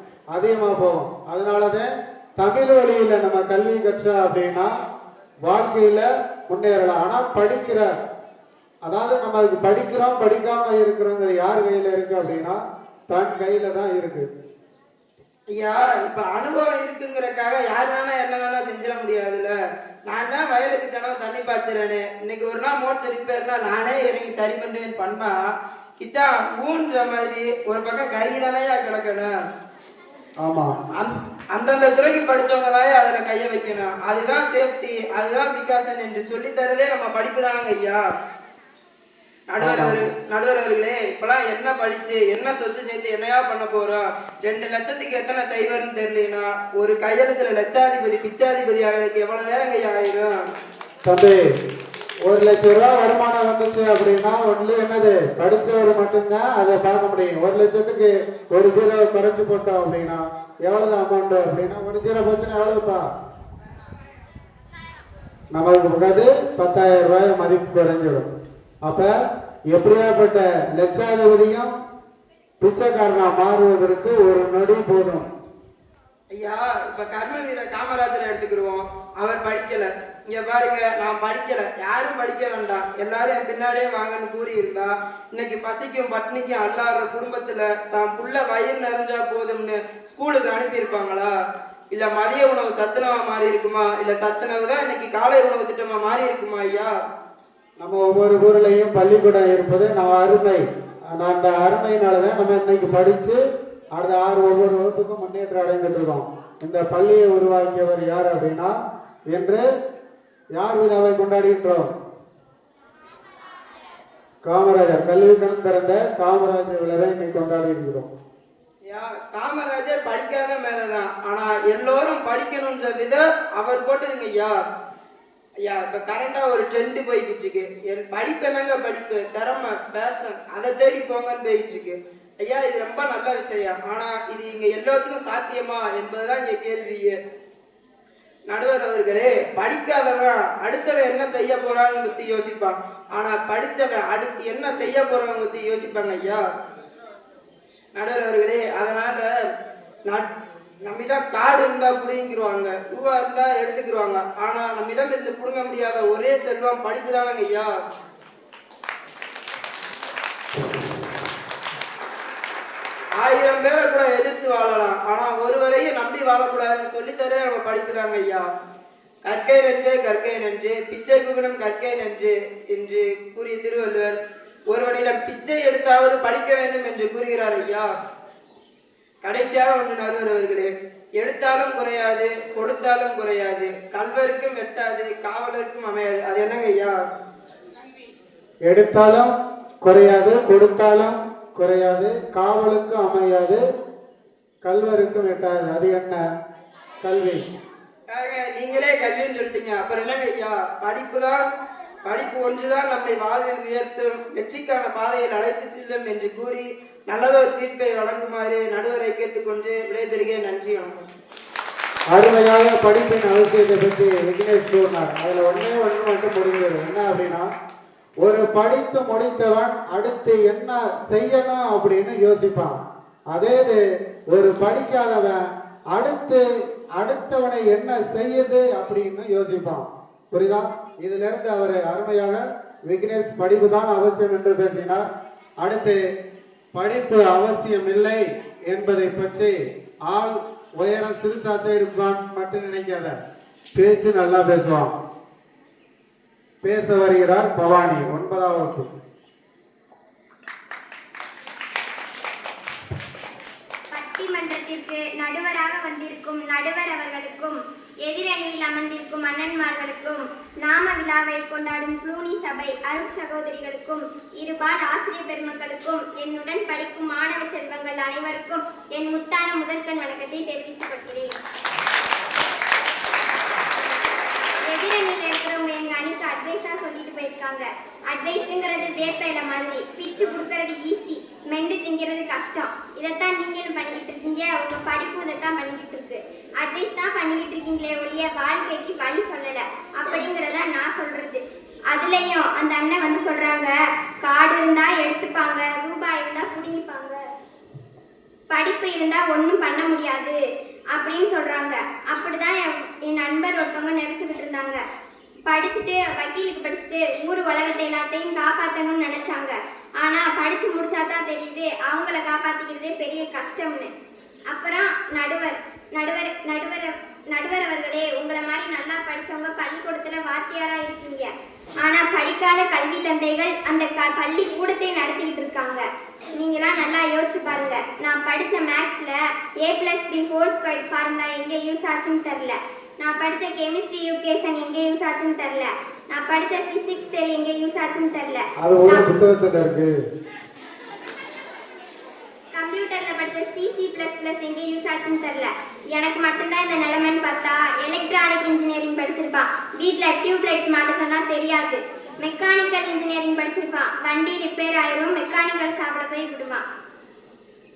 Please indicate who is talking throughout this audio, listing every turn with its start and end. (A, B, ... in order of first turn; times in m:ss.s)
0:00.3-0:04.7 A
0:05.4-0:07.9 A
0:08.9-0:14.3 A
0:15.5-0:19.6 B
0:20.1-0:25.4 B
0:26.0-0:29.3 B
0:30.4-0:30.8 A
0:30.9-0:38.0 B
0:39.5-0:50.4 B
0:39.6-0:40.0 A
0:51.0-0:51.4 A
0:52.2-1:03.1 A
1:05.5-1:08.3 A
1:08.8-1:09.2 A
1:09.7-1:11.7 A
1:12.6-1:15.3 A
1:16.3-1:31.3 B
1:31.9-1:36.9 B
1:37.8-1:43.4 A
1:44.0-1:48.8 A
1:49.3-1:49.6 A
1:50.6-1:51.9 A
1:54.4-1:58.1 A
1:58.9-2:04.6 B
2:05.6-2:17.2 B
2:18.5-2:26.4 B
2:28.0-2:29.3 B
2:30.9-2:37.7 B
2:43.2-2:48.5 B
2:49.2-2:54.2 B
2:54.7-2:57.9 B
2:59.2-3:07.0 B
3:08.7-3:13.6 A
3:14.6-3:16.2 A
3:17.0-3:17.5 A
3:18.1-3:21.5 B
3:22.0-3:31.1 B
3:32.1-3:37.5 A
3:38.2-3:42.8 A
3:43.3-3:46.4 A
3:47.0-3:55.0 A
3:55.6-3:56.0 A
3:56.8-3:59.6 A
4:00.1-4:03.2 A
4:03.8-4:04.9 A
4:06.6-4:08.9 A
4:13.9-4:31.4 C
4:34.6-4:53.7 C
4:54.2-4:57.2 C
4:58.5-5:00.4 C
5:00.9-5:04.8 C
5:05.5-5:13.9 C
5:14.5-5:21.3 C
5:21.8-5:39.1 C
5:38.6-5:40.0 A
5:42.6-5:56.6 C